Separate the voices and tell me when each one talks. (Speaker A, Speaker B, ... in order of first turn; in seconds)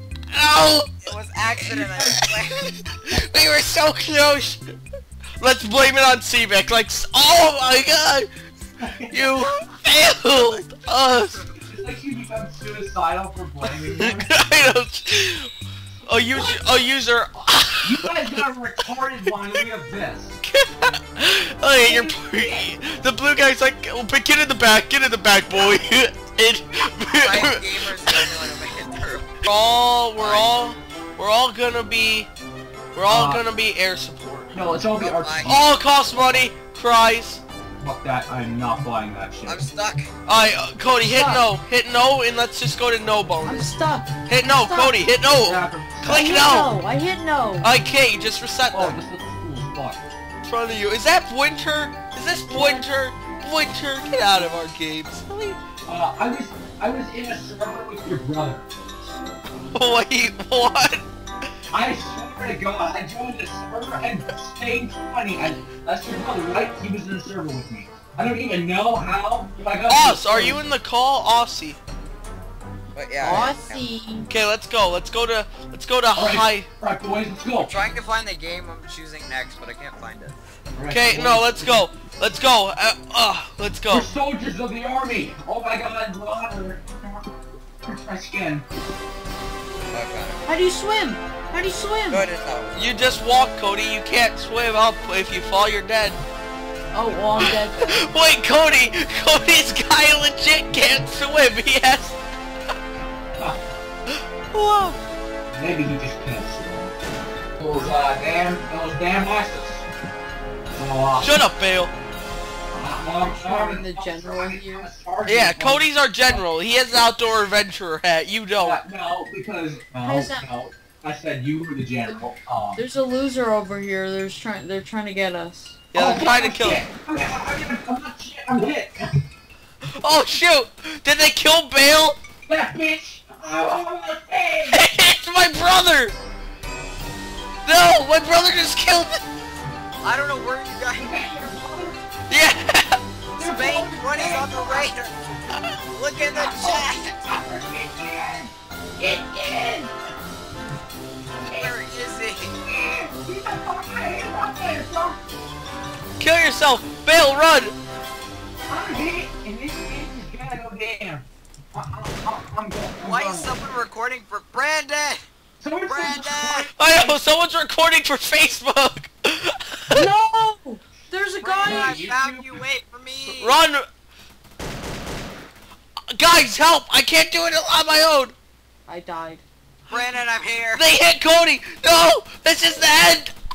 Speaker A: 0.3-1.0, 1.8-2.2, 3.1-4.6, 5.4-8.3, 9.1-11.4, 14.0-15.5, 16.0-18.1, 20.4-28.3, 29.4-32.3, 32.9-34.5, 35.4-37.4, 40.2-43.7, 44.2-46.7, 47.6-49.0, 50.4-55.6, 59.7-61.0, 69.9-71.8, 74.3-76.7, 80.9-84.1, 92.7-96.2, 97.3-102.2, 104.5-105.0, 111.2-111.9, 115.2-118.8, 125.9-126.8, 130.0-132.2, 134.7-136.1, 137.7-139.2, 142.3-143.0, 156.2-157.7, 166.8-170.1, 173.2-173.8, 176.1-178.3, 180.8-183.3
Speaker B: 1.0-2.7, 25.5-25.8, 27.0-29.5, 30.2-30.5, 35.0-35.6, 39.5-40.1, 72.9-73.9, 77.6-80.3, 89.9-90.4, 92.1-92.8, 140.0-141.2, 143.4-145.2, 145.8-147.1, 151.5-152.6, 163.0-165.2, 165.9-166.7, 171.4-173.6, 179.9-180.8
Speaker C: 8.8-9.5, 11.5-14.3, 17.8-20.4, 21.8-22.8, 33.0-33.4, 34.5-35.6, 37.8-39.6, 45.4-46.2, 48.7-50.0, 55.9-58.6, 61.7-70.6, 76.1-77.7, 80.7-81.8, 83.9-87.3, 87.9-88.7, 105.5-107.0, 107.6-109.9, 110.7-111.4, 112.7-116.4, 118.6-122.8, 125.9-129.1, 132.5-134.8, 140.9-142.0, 143.4-144.9, 146.3-149.9, 151.3-151.8, 152.7-155.2, 158.7-163.5, 165.6-167.2, 171.6-172.6
Speaker D: 41.0-41.5, 43.4-45.0, 46.0-47.7, 52.5-52.9, 73.2-74.3, 90.5-92.2, 96.9-98.0, 113.2-114.9, 120.0-120.5, 122.8-125.8, 169.9-172.1, 178.9-179.4